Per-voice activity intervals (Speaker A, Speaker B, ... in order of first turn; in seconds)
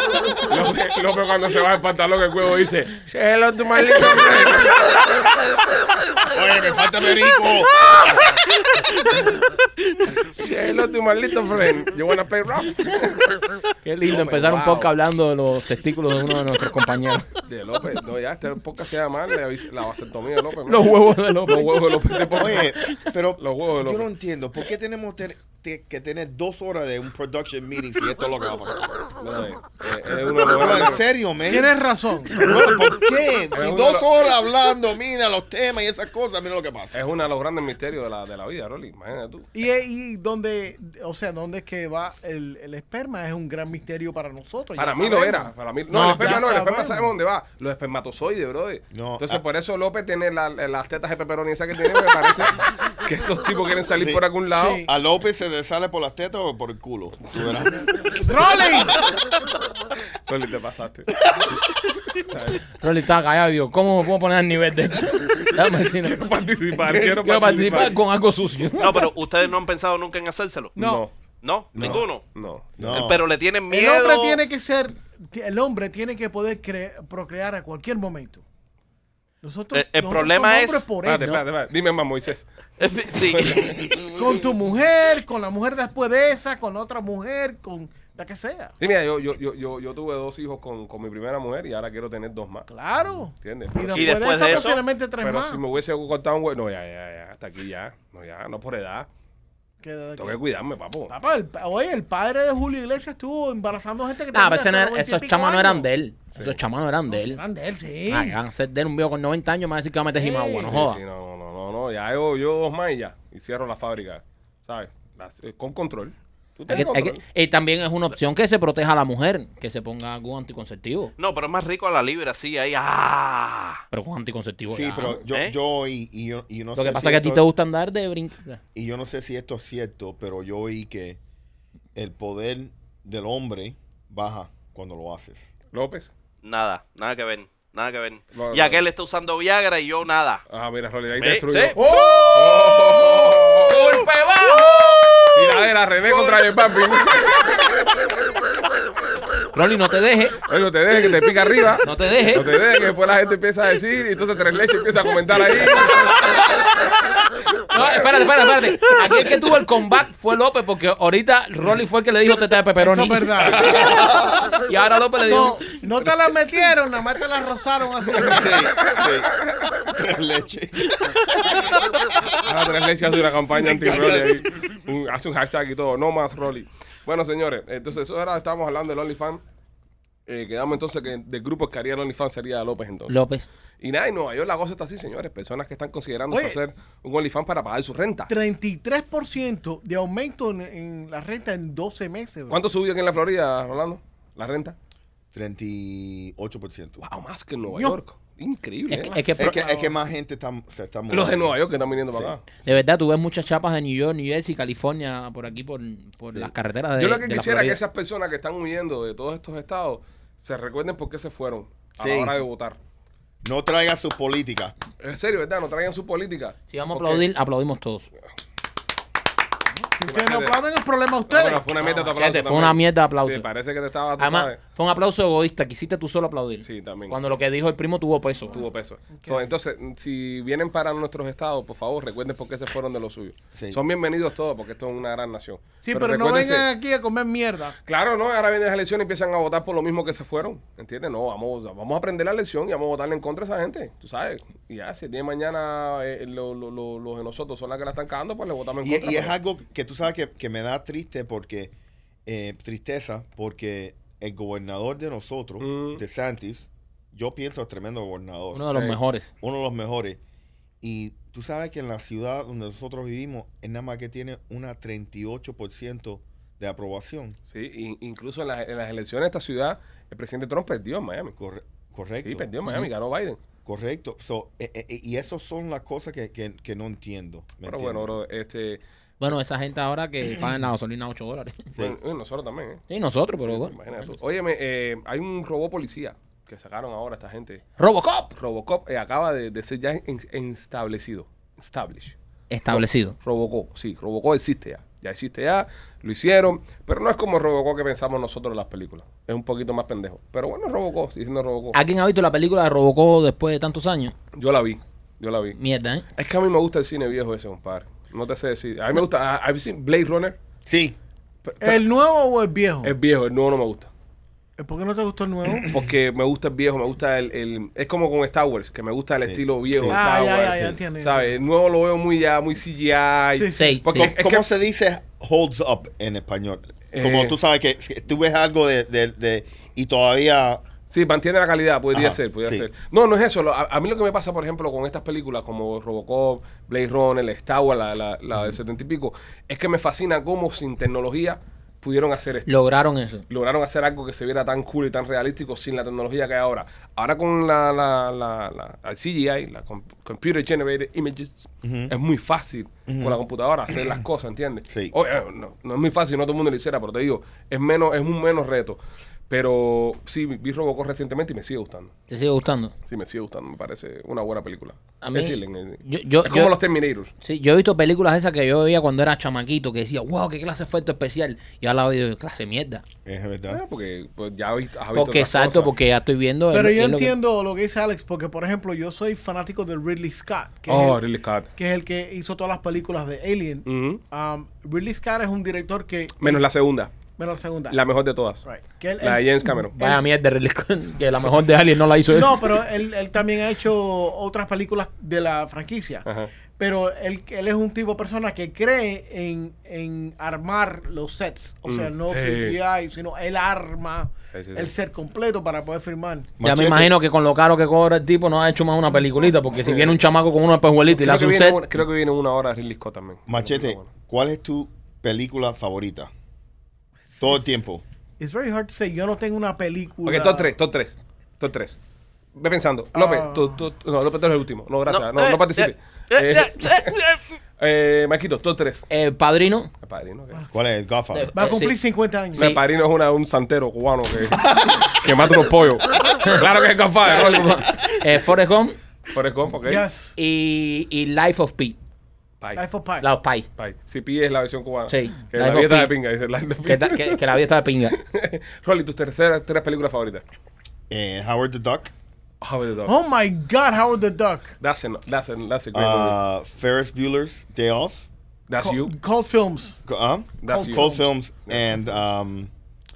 Speaker A: 0.5-5.3, 10.3-13.4, 14.1-14.9, 17.4-22.8, 23.4-24.1, 29.2-31.0, 33.5-34.1, 36.9-39.5, 44.8-54.8, 60.3-61.2, 62.1-62.6, 66.0-68.0, 70.8-71.1, 71.8-73.1, 81.0-82.5, 83.2-84.0, 88.8-92.7, 93.4-99.1, 100.2-101.1, 110.6-117.2, 135.7-136.1, 138.3-138.8, 140.5-144.0, 145.3-147.9, 150.4-156.7, 157.7-158.1, 168.3-169.7, 172.4-179.4, 180.3-183.2, 183.8-188.3, 192.5-194.8, 197.0-199.2, 201.1-202.4, 207.0-212.8, 215.0-217.3, 220.1-220.6, 221.3-224.6, 226.6-227.2, 228.5-236.7, 237.9-249.3, 255.6-256.0, 258.7-259.0, 267.5-271.4, 272.2-273.4, 277.6-278.8, 281.8-282.8, 283.4-287.6, 288.3-292.2, 292.7-301.8, 304.4-305.6, 306.2-310.4, 311.4-311.8, 312.8-313.9, 315.7-324.5, 326.9-327.4, 330.9-342.5, 343.3-361.9, 362.9-367.1, 373.5-375.7, 380.7-381.5, 383.7-384.0, 386.2-387.0, 387.7-388.4, 389.0-389.8, 396.1-396.3, 401.7-402.6, 404.3-404.7, 409.6-410.0, 410.9-413.9, 420.1-421.8, 422.4-427.0, 427.6-428.9, 429.8-430.4, 432.4-437.7, 439.1-439.9, 443.6-447.2, 447.9-450.2, 452.4-453.0, 454.6-456.2, 458.5-458.9, 460.4-461.0
Speaker B: 6.3-7.8, 22.3-29.1, 30.4-31.7, 32.3-37.0, 48.9-49.4, 54.0-58.2, 66.8-67.2, 71.8-72.0, 72.8-73.2, 124.7-127.5, 128.7-131.2, 131.9-135.5, 163.4-164.3, 168.2-171.6, 173.5-174.4, 195.3-197.0, 199.4-201.6, 202.1-202.4, 212.0-212.3, 213.4-214.8, 233.6-233.8, 248.8-251.7, 252.3-258.8, 259.4-260.2, 260.8-267.4, 271.4-272.5, 273.6-278.2, 310.7-311.0, 319.2-320.8, 323.9-330.6, 331.9-332.7, 351.6-351.9, 352.9-353.2, 354.7-354.9, 373.1-373.6, 406.4-406.9, 413.3-416.1, 417.2-417.8, 430.5-431.3, 434.3-435.0, 450.9-451.9, 455.7-458.1, 459.9-462.5
Speaker C: 13.8-17.3, 20.7-22.6, 45.9-46.5, 62.8-66.3, 67.2-69.1, 104.3-107.4, 108.1-111.0, 116.7-121.1, 123.9-125.2, 126.8-128.6, 141.8-146.4, 149.5-150.4, 151.8-152.5, 157.7-165.7, 183.1-183.5, 198.9-199.6, 202.7-207.8, 216.7-218.1, 221.8-223.5, 224.2-228.6, 258.5-259.3, 279.2-281.7, 282.9-283.8, 287.8-288.3, 292.5-293.2, 301.7-304.1, 305.6-306.1, 323.5-324.1, 342.5-343.2, 362.1-362.7, 365.0-366.6, 367.2-372.8, 374.9-377.2, 389.8-392.6, 406.4-411.7, 428.9-429.7, 431.1-431.8, 432.4-432.6, 437.1-438.8, 440.2-441.8, 443.0-443.5, 444.9-445.9, 446.6-448.0
Speaker D: 31.5-32.5, 39.5-47.1, 54.5-54.9, 58.1-59.0, 70.8-71.0, 73.7-78.4, 79.4-81.4, 84.2-88.8, 92.7-95.6, 99.8-100.4, 101.1-105.9, 107.1-108.4, 110.2-110.8, 162.8-163.8, 165.2-168.8, 186.3-186.6, 188.3-192.6, 197.7-198.0, 199.0-199.9, 220.0-221.7, 229.1-229.4, 235.8-237.8, 311.6-312.9, 314.6-315.8, 319.9-321.3, 323.3-323.8, 376.5-381.0, 381.6-386.5, 387.2-387.8, 388.4-390.0, 392.1-406.3, 417.1-417.5, 418.2-420.5, 422.9-423.6, 431.3-432.6, 439.6-440.2, 442.6-443.1, 452.9-454.6, 458.6-459.8, 460.5-461.0
Speaker E: 68.8-70.8, 71.4-72.3, 72.8-74.4, 79.7-80.9, 82.8-84.0, 93.9-94.8, 121.2-123.8, 136.4-140.4, 141.2-141.8, 424.9-427.2